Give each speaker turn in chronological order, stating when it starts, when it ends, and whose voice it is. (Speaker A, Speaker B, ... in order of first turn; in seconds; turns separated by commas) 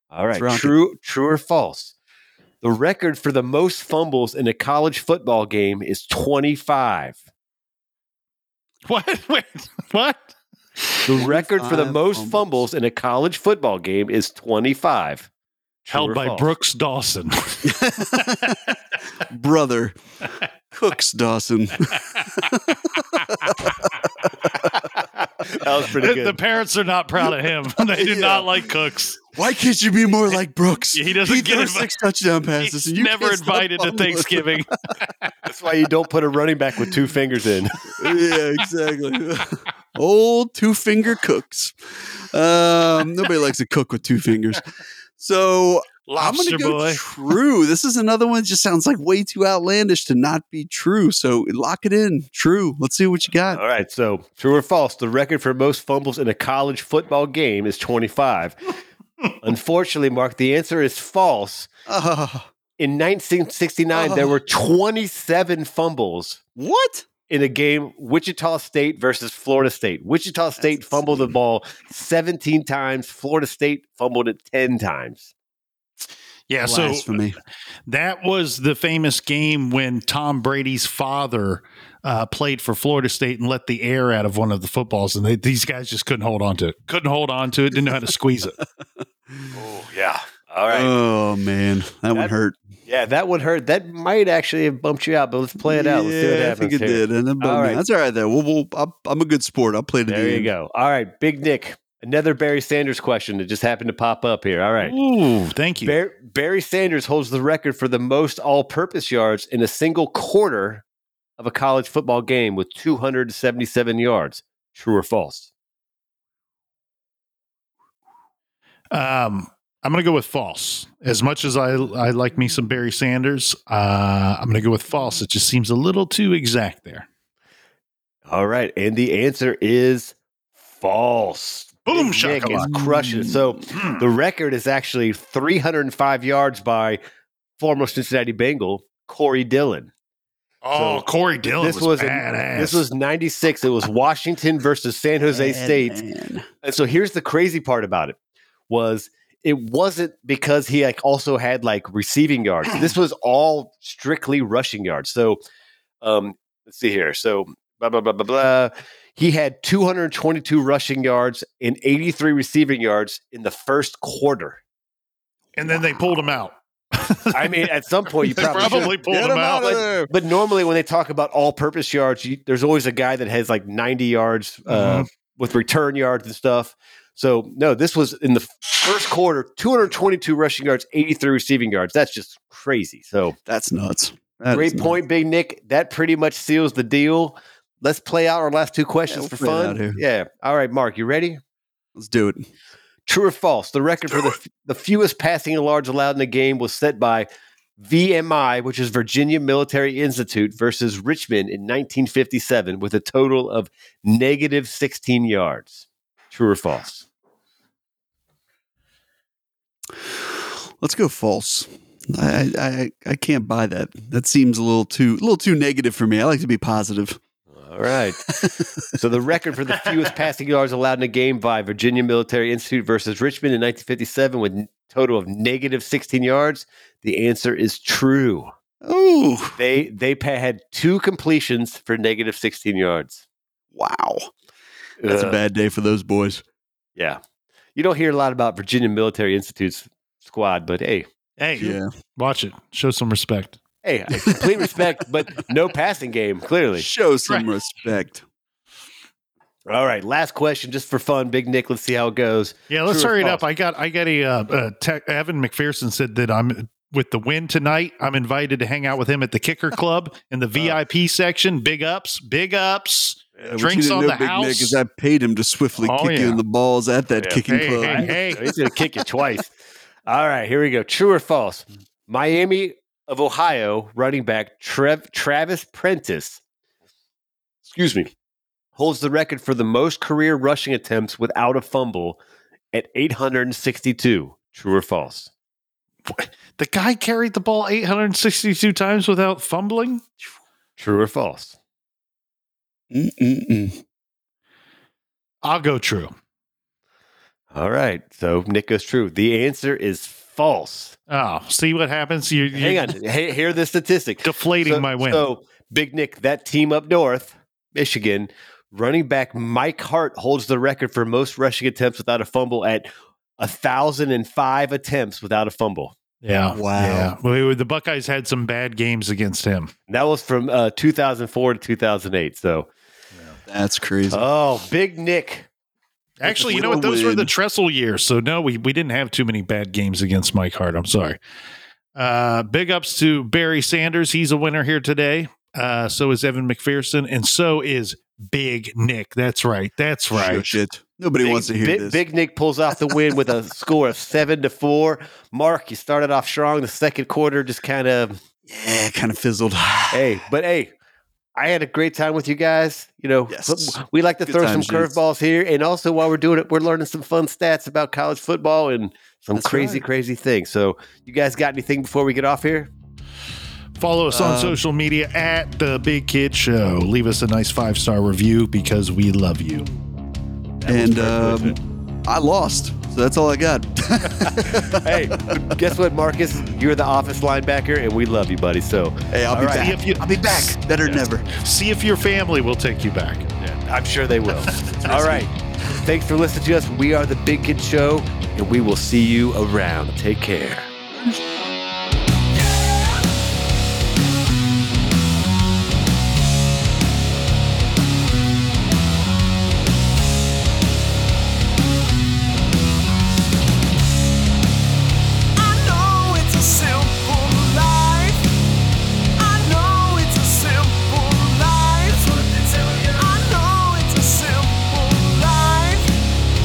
Speaker A: 0.1-1.9, Speaker B: 0.3-0.7, Speaker A: 2.6-7.2, Speaker C: 8.8-11.0, Speaker A: 11.0-15.3, Speaker B: 11.1-12.6, Speaker A: 15.8-16.5, Speaker C: 15.9-18.7, Speaker B: 17.6-18.6, Speaker B: 19.3-19.9, Speaker B: 20.7-24.7, Speaker C: 22.0-23.7, Speaker A: 25.4-26.4, Speaker C: 25.9-29.2, Speaker B: 27.9-28.7, Speaker B: 29.3-34.6, Speaker C: 30.9-32.0, Speaker C: 32.6-35.3, Speaker A: 35.5-38.0, Speaker B: 38.0-44.6, Speaker B: 45.2-53.6, Speaker C: 46.1-47.0, Speaker A: 53.5-58.6, Speaker A: 59.4-61.7, Speaker B: 61.9-62.5, Speaker A: 62.8-66.4, Speaker B: 63.9-64.3, Speaker B: 66.6-67.1, Speaker A: 67.3-75.3, Speaker B: 70.6-71.3, Speaker C: 76.5-77.2, Speaker B: 76.6-77.3, Speaker C: 77.8-88.6, Speaker A: 89.5-90.9, Speaker B: 90.7-92.6, Speaker A: 92.8-97.8, Speaker B: 95.6-100.5, Speaker A: 100.1-104.9, Speaker C: 104.8-105.9, Speaker A: 105.8-110.8, Speaker A: 111.4-115.5, Speaker C: 118.9-127.0, Speaker A: 128.3-130.1, Speaker A: 130.8-137.0, Speaker C: 131.9-132.7, Speaker B: 132.6-133.4, Speaker C: 133.7-134.0, Speaker A: 137.6-139.9, Speaker C: 140.6-142.8, Speaker A: 140.7-141.0, Speaker A: 141.6-146.0, Speaker B: 145.3-146.5, Speaker A: 146.6-148.2, Speaker A: 148.7-155.4, Speaker A: 156.0-164.6, Speaker C: 165.5-167.7, Speaker B: 165.6-166.4, Speaker A: 167.3-168.9, Speaker C: 168.3-169.8, Speaker B: 168.5-170.1, Speaker A: 170.1-183.3, Speaker C: 174.7-175.1, Speaker B: 183.5-185.0, Speaker A: 184.5-191.4, Speaker B: 189.1-190.0, Speaker B: 191.9-192.5, Speaker A: 193.1-207.1, Speaker B: 210.0-217.2, Speaker A: 217.5-218.2, Speaker B: 218.3-218.9, Speaker A: 218.9-228.5, Speaker B: 228.8-229.6, Speaker A: 229.6-233.2, Speaker B: 233.7-234.3, Speaker A: 235.0-235.4, Speaker B: 235.1-236.4, Speaker A: 237.8-241.1, Speaker C: 241.4-243.6, Speaker B: 241.6-241.9, Speaker A: 243.8-246.8, Speaker B: 246.8-248.2, Speaker A: 249.7-253.4, Speaker C: 252.7-264.8, Speaker B: 263.5-268.2, Speaker C: 265.8-266.4, Speaker A: 267.2-269.5, Speaker C: 267.4-268.4, Speaker A: 270.1-276.4, Speaker A: 277.6-278.1, Speaker A: 278.8-282.2, Speaker A: 282.7-285.3, Speaker C: 286.1-290.0, Speaker A: 290.8-291.6, Speaker B: 292.9-293.8, Speaker C: 295.4-296.1, Speaker A: 297.5-301.0, Speaker C: 301.1-302.9, Speaker A: 302.5-315.9, Speaker C: 304.2-305.2, Speaker C: 316.2-319.7, Speaker B: 316.5-317.1, Speaker A: 319.9-322.7, Speaker B: 323.5-324.2, Speaker A: 324.1-325.5, Speaker C: 326.2-331.2, Speaker B: 326.2-327.3, Speaker C: 331.9-340.6, Speaker B: 340.1-342.0, Speaker A: 341.2-348.2, Speaker B: 348.5-350.1, Speaker A: 349.9-350.7, Speaker A: 351.4-362.7, Speaker B: 353.3-354.9, Speaker B: 359.3-359.8, Speaker C: 363.8-369.7, Speaker B: 364.1-364.6, Speaker A: 370.6-371.5, Speaker B: 370.6-375.6, Speaker A: 374.4-379.8, Speaker B: 379.1-381.3, Speaker C: 379.5-383.3, Speaker A: 383.4-390.7, Speaker C: 384.5-385.0, Speaker B: 384.9-385.2, Speaker B: 390.9-391.2, Speaker B: 405.4-408.2, Speaker B: 409.2-415.9